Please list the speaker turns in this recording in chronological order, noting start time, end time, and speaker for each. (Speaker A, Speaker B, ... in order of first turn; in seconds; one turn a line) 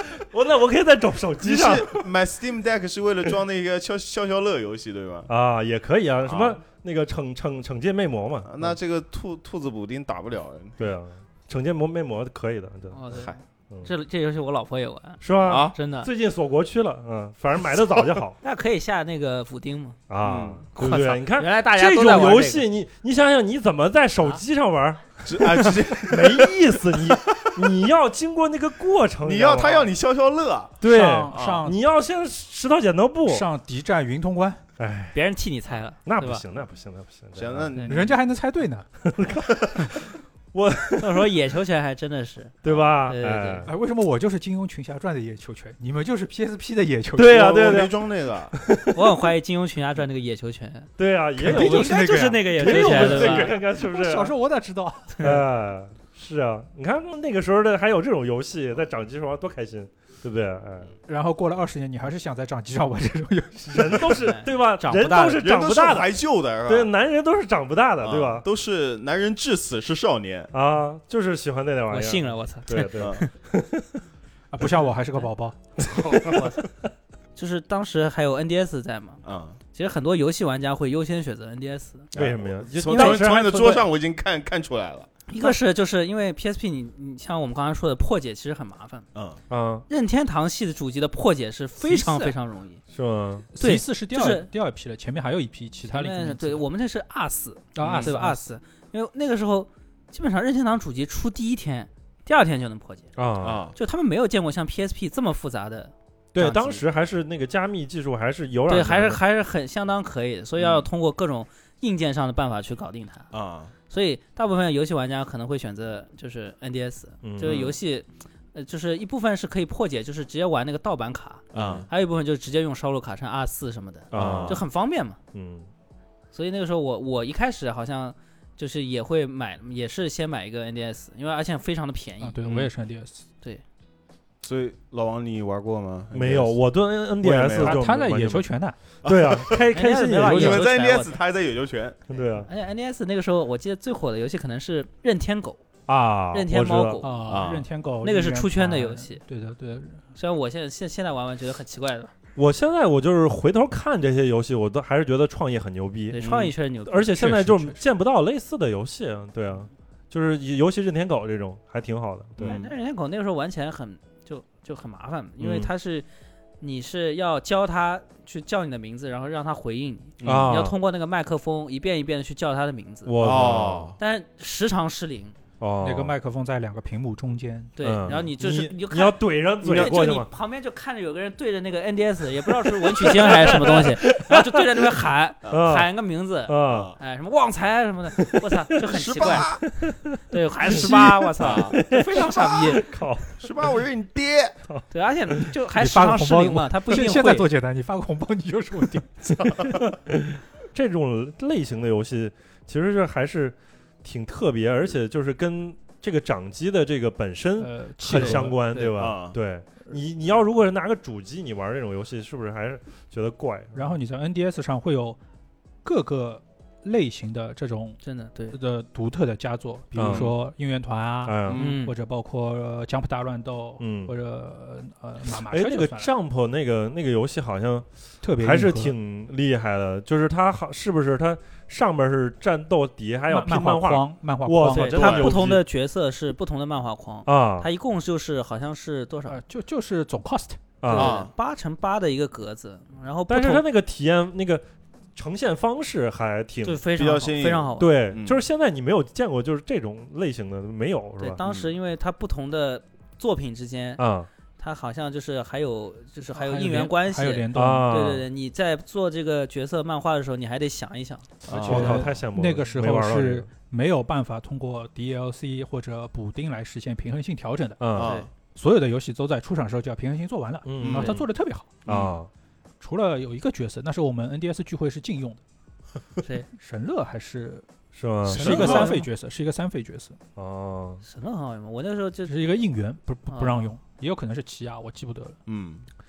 Speaker A: 0.1-2.0
Speaker B: 1.4-5.3
Speaker A: 5.3-8.8
Speaker B: 6.2-6.6
Speaker B: 8.4-10.8
Speaker A: 10.8-13.0
Speaker C: 12.9-16.1
Speaker B: 13.1-13.3
Speaker A: 15.2-18.4
Speaker B: 15.4-15.8
Speaker C: 18.4-20.0
Speaker A: 20.1-29.9
Speaker B: 20.2-20.6
Speaker C: 20.8-22.6
Speaker B: 25.2-27.7
Speaker B: 29.2-31.6
Speaker A: 30.8-33.5
Speaker D: 30.8-31.8
Speaker D: 33.3-34.6
Speaker A: 34.8-35.2
Speaker C: 35.1-36.4
Speaker A: 36.0-37.7
Speaker B: 37.3-38.1
Speaker D: 37.8-38.9
Speaker A: 39.1-41.3
Speaker C: 41.0-43.6
Speaker A: 42.6-43.7
Speaker D: 43.6-47.5
Speaker A: 47.1-48.0
Speaker B: 47.2-48.5
Speaker A: 48.5-49.2
Speaker C: 48.9-50.9
Speaker A: 51.0-54.3
Speaker D: 51.4-55.3
Speaker C: 51.5-53.5
Speaker A: 55.2-60.9
Speaker D: 61.1-64.2
Speaker A: 63.7-66.1
Speaker C: 64.1-65.4
Speaker B: 65.3-66.9
Speaker A: 66.7-68.4
Speaker B: 68.0-70.5
Speaker A: 70.5-73.8
Speaker C: 71.9-73.3
Speaker B: 73.0-73.2
Speaker D: 74.5-75.6
Speaker A: 75.8-76.4
Speaker B: 76.0-76.4
Speaker C: 76.1-76.7
Speaker C: 77.3-82.1
Speaker B: 79.2-79.6
Speaker B: 82.1-85.1
Speaker A: 82.1-83.9
Speaker C: 85.3-89.0
Speaker B: 89.1-89.4
Speaker A: 89.5-89.8
Speaker C: 89.9-92.8
Speaker D: 91.8-92.3
Speaker A: 92.9-93.5
Speaker D: 93.5-96.6
Speaker C: 93.6-94.5
Speaker C: 95.9-103.1
Speaker D: 97.7-98.4
Speaker A: 97.8-98.1
Speaker A: 103.2-103.6
Speaker B: 103.4-103.8
Speaker C: 103.7-106.8
Speaker A: 106.3-109.2
Speaker C: 108.7-113.3
Speaker B: 110.6-110.9
Speaker B: 113.3-113.7
Speaker C: 113.9-125.2
Speaker A: 117.2-117.7
Speaker B: 117.4-117.8
Speaker B: 121.5-121.9
Speaker A: 121.5-121.8
Speaker A: 124.1-124.6
Speaker B: 124.1-124.6
Speaker A: 125.3-125.7
Speaker C: 126.3-132.5
Speaker D: 132.2-133.2
Speaker B: 134.4-136.6
Speaker A: 136.1-138.5
Speaker B: 137.2-137.8
Speaker D: 137.6-138.8
Speaker B: 139.0-139.7
Speaker A: 139.0-140.6
Speaker C: 139.7-141.2
Speaker B: 140.2-142.0
Speaker A: 142.1-142.5
Speaker C: 142.4-145.6
Speaker A: 145.9-147.0
Speaker C: 146.3-147.4
Speaker D: 147.0-150.0
Speaker B: 147.2-147.7
Speaker C: 148.0-149.2
Speaker C: 150.1-152.1
Speaker A: 152.3-156.2
Speaker C: 156.1-157.2
Speaker B: 156.2-156.5
Speaker A: 156.8-162.6
Speaker D: 157.1-157.8
Speaker B: 162.4-162.7
Speaker C: 162.4-166.1
Speaker A: 165.4-165.7
Speaker C: 166.6-173.4
Speaker B: 170.2-170.7
Speaker A: 170.2-170.8
Speaker A: 173.1-173.9
Speaker B: 173.2-174.0
Speaker C: 174.0-175.4
Speaker A: 175.6-176.1
Speaker D: 175.8-177.7
Speaker C: 177.8-189.7
Speaker A: 177.8-180.3
Speaker B: 179.6-180.0
Speaker A: 182.6-184.9
Speaker A: 185.5-185.9
Speaker A: 186.5-186.9
Speaker B: 186.7-187.0
Speaker A: 188.3-188.7
Speaker B: 188.8-189.6
Speaker A: 189.2-189.9
Speaker C: 190.3-192.9
Speaker D: 190.7-191.3
Speaker B: 191.4-191.8
Speaker A: 191.8-193.5
Speaker D: 191.8-192.8
Speaker B: 193.4-194.6
Speaker C: 194.9-197.5
Speaker D: 195.7-199.1
Speaker B: 199.2-199.8
Speaker A: 199.6-213.9
Speaker D: 207.6-208.6
Speaker C: 208.1-208.9
Speaker B: 208.9-209.4
Speaker D: 213.7-215.2
Speaker D: 215.8-226.1
Speaker C: 218.0-218.6
Speaker A: 219.9-220.3
Speaker B: 220.0-220.3
Speaker A: 221.2-221.7
Speaker B: 221.4-221.8
Speaker C: 221.5-221.9
Speaker A: 223.8-224.1
Speaker A: 225.3-235.6
Speaker D: 228.2-228.9
Speaker D: 233.3-235.4
Speaker C: 234.7-239.4
Speaker B: 235.0-235.3
Speaker A: 237.2-237.7
Speaker D: 239.3-240.7
Speaker A: 240.8-241.2
Speaker C: 240.9-243.6
Speaker B: 240.9-241.3
Speaker A: 243.3-246.8
Speaker C: 246.6-248.0
Speaker B: 246.9-248.4
Speaker A: 247.8-251.4
Speaker C: 251.2-254.0
Speaker B: 251.4-251.8
Speaker A: 254.0-254.3
Speaker C: 254.6-262.0
Speaker D: 256.3-257.9
Speaker A: 257.5-258.2
Speaker D: 261.4-267.8
Speaker B: 261.5-262.2
Speaker A: 261.6-263.5
Speaker A: 267.8-268.2
Speaker B: 267.9-268.3
Speaker C: 268.0-268.3
Speaker D: 268.5-271.8
Speaker A: 270.6-271.3
Speaker B: 270.8-271.1
Speaker B: 271.9-272.2
Speaker A: 271.9-272.3
Speaker D: 272.8-275.4
Speaker C: 276.2-276.5
Speaker D: 276.6-277.6
Speaker A: 277.9-279.1
Speaker B: 278.3-278.9
Speaker D: 278.3-280.2
Speaker A: 280.4-281.0
Speaker C: 281.0-282.5
Speaker D: 282.2-285.4
Speaker C: 283.3-283.7
Speaker B: 285.4-285.9